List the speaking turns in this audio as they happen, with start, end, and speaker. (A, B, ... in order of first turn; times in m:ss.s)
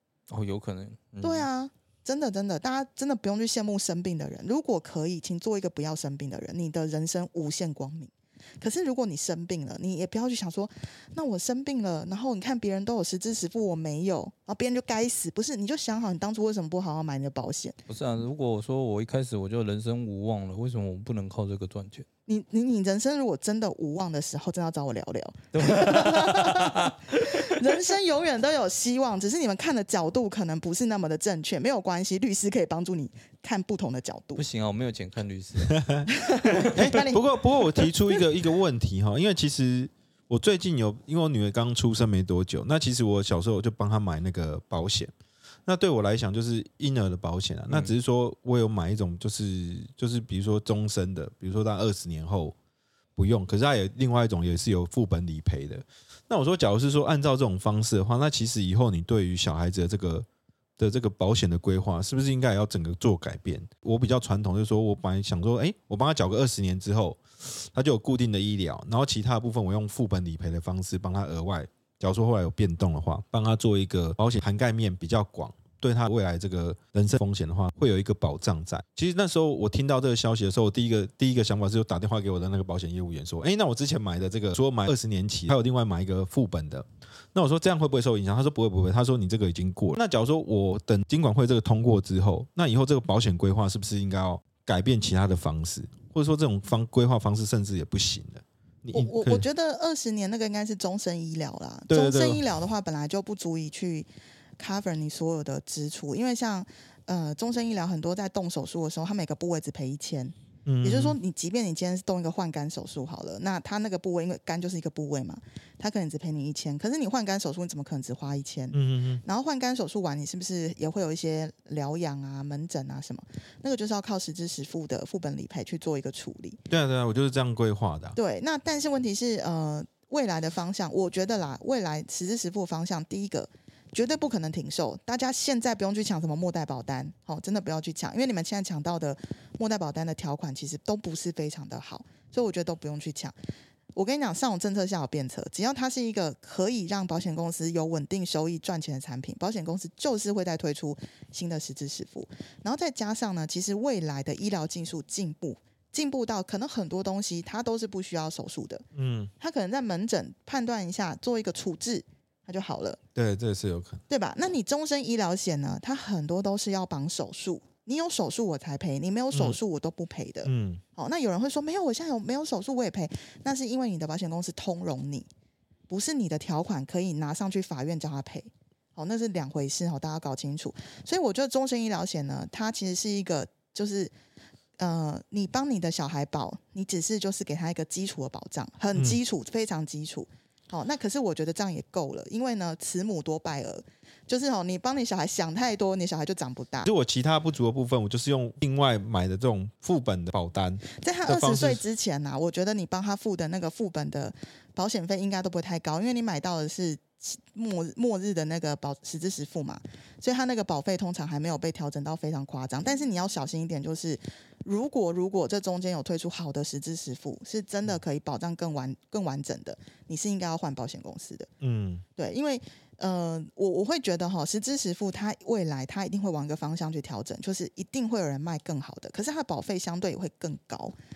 0:00.3-0:01.5 A
0:01.2-0:17.8 B
0:17.9-0:22.0 A
0:22.3-0:34.4 B
0:25.5-0:27.8 A
0:34.4-0:35.8 A
0:35.7-0:36.0 C
0:36.1-0:38.2 B
0:36.6-0:45.1 C
0:45.6-0:52.5 C
0:53.2-1:00.3 C
1:00.8-1:39.4 C
1:38.9-1:44.1 B
1:41.9-1:42.4 C
1:44.6-2:06.6 B
1:50.6-1:51.2 C
1:58.7-1:59.2 C
2:06.7-2:08.2 C
2:08.2-2:23.3 B
2:23.9-2:38.8 B
2:38.9-2:39.3 C
2:39.4-2:43.0 B
2:43.1-2:44.0 C
2:44.1-2:55.3 B
2:49.3-2:49.6 C
2:50.4-2:50.8 C
2:55.9-3:04.1 B
3:04.8-3:16.9 B
3:16.8-3:21.8 C
3:20.9-3:41.5 B
3:41.6-3:42.0 C
3:42.2-3:50.9 B